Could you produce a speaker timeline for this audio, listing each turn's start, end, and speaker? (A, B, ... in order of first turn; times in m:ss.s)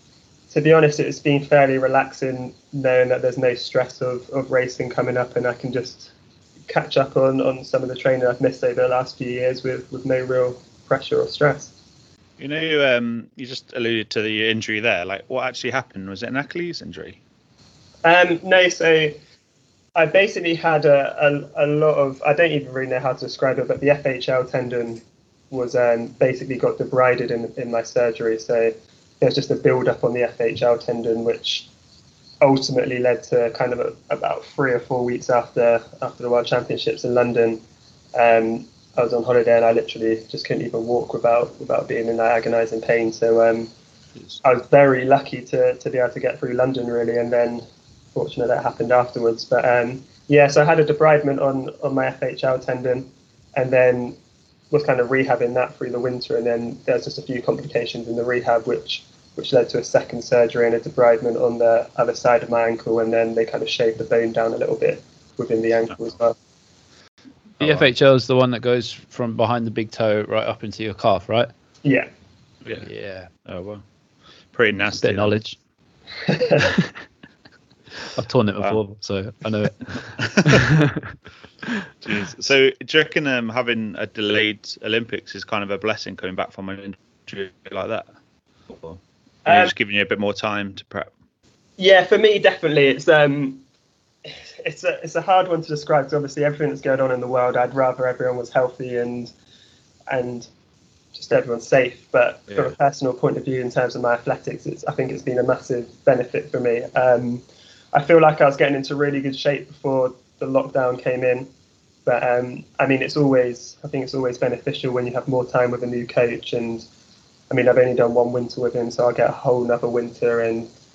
0:00.5-0:06.1 A
0:06.7-0:11.7 A
0:12.4-0:17.2 B
0:18.0-0:19.2 A
0:20.0-0:31.7 A
0:32.4-0:37.6 A
0:38.1-0:43.7 A
0:44.4-0:47.6 A
0:48.1-0:54.2 A
0:54.7-1:06.3 A
1:07.6-1:07.9 B
1:07.6-1:11.5 C
1:12.8-1:13.3 C
1:13.4-1:13.8 B
1:14.5-1:15.3 B
1:15.0-1:15.6 C
1:16.3-1:16.7 A
1:16.6-1:16.9 C
1:18.1-1:21.1 C
1:20.3-1:20.6 B
1:22.0-1:28.1 B
1:28.7-1:31.1 B
1:29.4-1:29.7 A
1:31.8-1:33.6 A
1:34.2-1:39.3 A
1:40.1-1:40.5 A
1:41.1-1:51.5 A
1:52.0-1:56.8 A
1:57.5-2:00.7 A